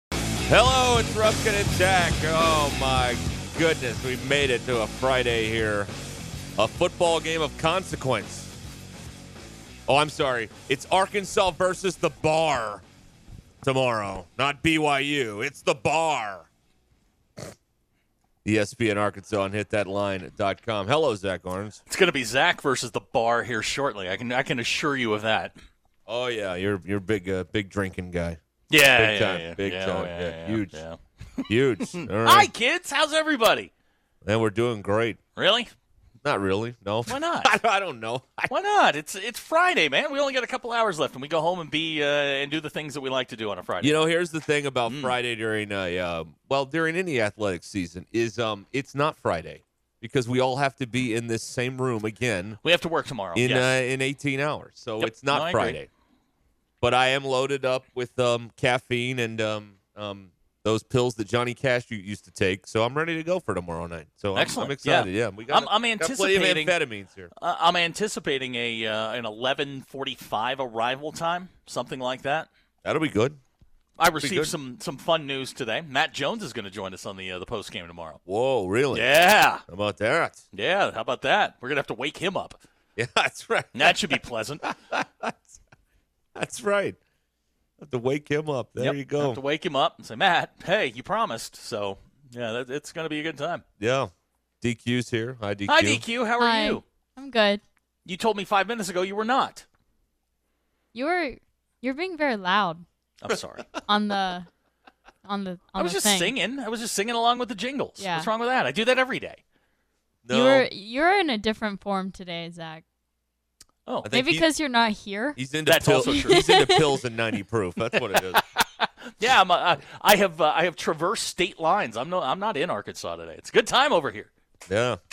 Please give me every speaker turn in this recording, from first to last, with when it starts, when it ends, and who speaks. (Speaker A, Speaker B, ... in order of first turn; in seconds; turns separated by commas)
Speaker A: 0.5-5.9, Speaker A: 6.6-8.5, Speaker A: 9.9-12.8, Speaker A: 13.6-16.5, Speaker A: 18.4-21.8, Speaker B: 21.9-25.5, Speaker A: 26.1-30.8, Speaker B: 28.7-33.7, Speaker A: 31.5-32.5, Speaker A: 34.2-35.2, Speaker B: 35.4-35.7, Speaker A: 36.2-38.5, Speaker B: 37.1-37.5, Speaker B: 38.5-44.1, Speaker A: 43.8-52.6, Speaker B: 44.9-45.1, Speaker B: 52.6-53.7, Speaker A: 53.3-55.9, Speaker B: 55.0-55.8, Speaker A: 56.8-67.3, Speaker B: 64.3-66.8, Speaker B: 67.3-72.5, Speaker A: 72.8-73.4, Speaker B: 74.0-78.2, Speaker A: 74.2-74.5, Speaker A: 78.2-80.4, Speaker B: 78.9-79.6, Speaker B: 80.5-82.6, Speaker A: 83.0-84.1, Speaker B: 83.7-84.6, Speaker A: 84.9-85.5, Speaker A: 86.3-87.0, Speaker A: 87.8-89.4, Speaker B: 88.8-93.6, Speaker A: 93.8-96.0, Speaker B: 95.7-96.8, Speaker C: 96.4-97.6, Speaker B: 98.0-99.6, Speaker C: 100.9-102.8, Speaker B: 103.2-103.7, Speaker C: 103.9-104.5, Speaker C: 105.2-106.3, Speaker B: 105.8-109.4, Speaker C: 108.0-108.3, Speaker A: 110.2-110.7, Speaker C: 110.3-112.8, Speaker B: 113.9-114.1, Speaker A: 114.0-114.5, Speaker C: 114.1-115.4, Speaker A: 115.3-118.4, Speaker B: 115.7-116.5, Speaker C: 116.0-116.9, Speaker B: 118.8-124.3, Speaker A: 124.7-125.0